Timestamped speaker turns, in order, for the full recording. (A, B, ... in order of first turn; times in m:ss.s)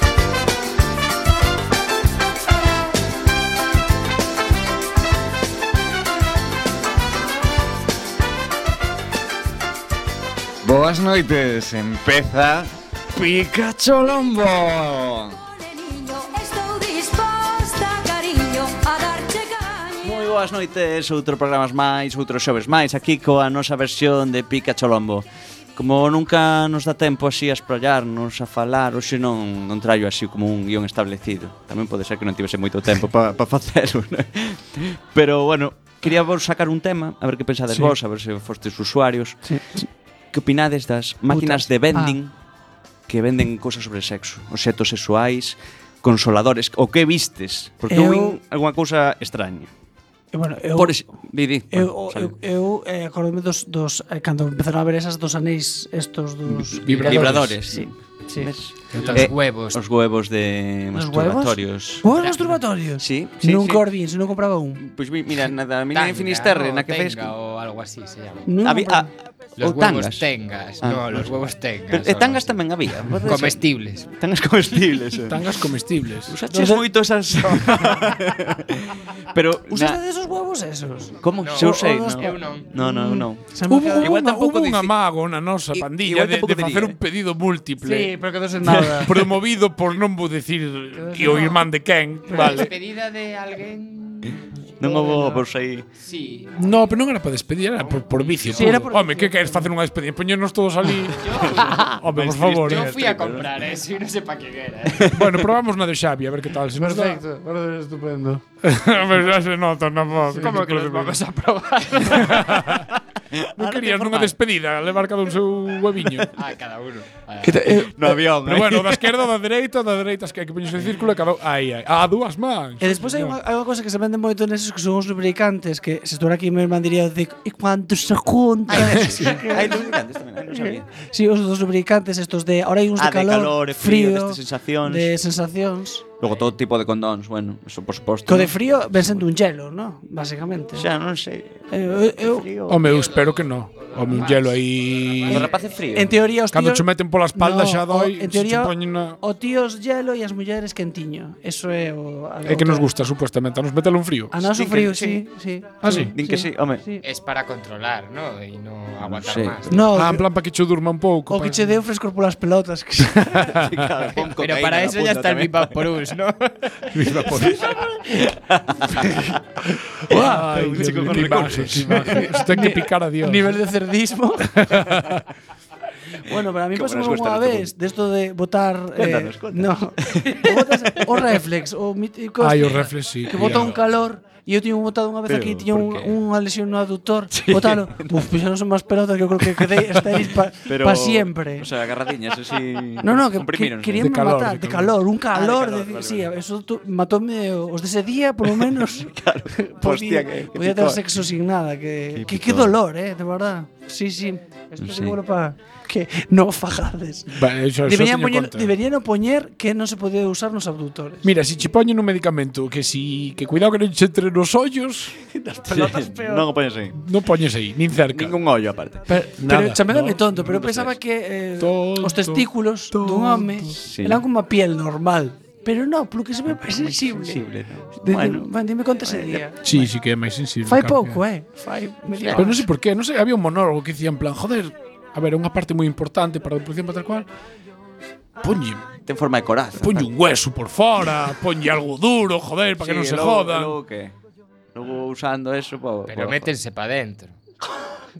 0:10.6-0:15.4 A
0:16.1-0:19.9 B
0:20.0-0:42.3 C
0:41.3-0:42.2 D
0:43.1-0:49.7 C
0:47.9-0:48.4 D
0:50.3-0:51.0 D
0:50.8-0:52.3 C
0:51.7-0:58.5 D
0:56.4-0:57.6 E
0:56.9-1:02.2 C
0:56.9-0:57.2 F
0:58.9-0:59.3 E
0:58.9-0:59.8 F
1:00.9-1:04.8 D
1:02.1-1:02.6 F
1:03.0-1:03.9 C
1:04.8-1:07.3 C
1:05.9-1:08.5 F
1:08.4-1:09.1 D
1:08.6-1:10.2 C
1:09.6-1:12.6 F
1:10.8-1:15.5 C
1:13.2-1:14.1 F
1:15.3-1:16.3 E
1:16.3-1:20.0 C
1:16.5-1:18.2 D
1:19.7-1:24.7 D
1:21.2-1:24.9 C
1:21.4-1:22.7 F
1:23.7-1:28.1 E
1:25.7-1:27.0 C
1:27.8-1:29.1 D
1:28.7-1:32.7 E
1:30.9-1:31.7 D
1:32.3-1:32.7 D
1:32.4-1:35.0 F
1:34.8-1:35.9 C
1:34.9-1:35.4 D
1:36.0-1:36.6 F
1:36.6-1:42.9 E
1:37.8-1:38.8 F
1:38.5-1:39.7 D
1:41.1-1:42.0 F
1:41.6-1:43.5 C
1:42.6-1:45.1 F
1:45.1-1:47.2 E
1:46.7-1:48.4 D
1:48.6-1:51.2 E
1:50.2-1:52.6 F
1:52.0-1:52.9 E
1:53.3-1:54.3 C
1:53.5-1:56.3 E
1:56.3-1:57.7 F
1:57.4-1:58.2 D
1:57.7-1:59.0 C
1:58.4-2:03.4 E
2:02.8-2:09.9 D
2:08.7-2:10.9 C
2:09.0-2:09.3 E
2:10.5-2:16.0 D
2:13.0-2:15.1 C
2:16.2-2:19.2 C
2:18.3-2:20.9 D
2:20.8-2:22.9 C
2:21.7-2:22.5 D
2:22.7-2:25.5 E
2:22.8-2:25.8 F
2:25.2-2:26.2 C
2:25.9-2:32.9 D
2:26.5-2:29.2 E
2:32.4-2:34.4 E
2:34.3-2:37.0 D
2:34.5-2:35.2 C
2:35.8-2:36.1 E
2:35.8-2:36.8 C
2:37.0-2:39.9 F
2:39.0-2:39.9 C
2:39.7-2:40.2 D
2:39.9-2:41.8 E
2:41.3-2:43.4 D
2:43.1-2:43.9 E
2:43.4-2:45.8 C
2:44.1-2:46.9 F
2:46.9-2:47.8 E
2:47.3-2:48.3 D
2:48.5-2:49.2 C
2:48.8-2:49.3 D
2:50.0-2:53.6 E
2:50.1-2:51.3 D
2:50.1-2:52.3 C
2:51.9-2:55.0 D
2:54.5-2:55.3 E
2:56.2-3:11.7 D
2:56.7-2:57.7 C
2:59.0-3:01.2 C
3:02.4-3:03.8 E
3:05.3-3:06.2 C
3:07.3-3:08.2 C
3:09.5-3:10.0 C
3:10.6-3:14.1 C
3:13.0-3:31.3 D
3:14.0-3:14.9 E
3:15.3-3:16.3 C
3:18.5-3:21.0 C
3:22.1-3:22.7 C
3:24.8-3:25.2 C
3:27.3-3:28.7 E
3:31.2-3:35.2 E
3:35.3-3:36.5 D
3:35.7-3:37.0 C
3:36.9-3:38.4 E
3:38.1-3:39.0 C
3:39.1-3:47.4 D
3:39.4-3:40.3 E
3:40.4-3:41.0 C
3:41.6-3:43.7 E
3:43.8-3:44.2 C
3:46.5-3:48.5 C
3:48.0-3:49.6 D
3:49.0-3:49.9 C
3:49.6-3:51.2 E
3:50.6-3:52.6 D
3:52.2-3:52.4 C
3:52.3-3:57.3 E
3:58.4-3:58.8 E
3:59.0-4:00.1 C
3:59.8-4:03.8 E
4:02.8-4:04.1 C
4:04.7-4:06.5 C
4:06.1-4:07.4 F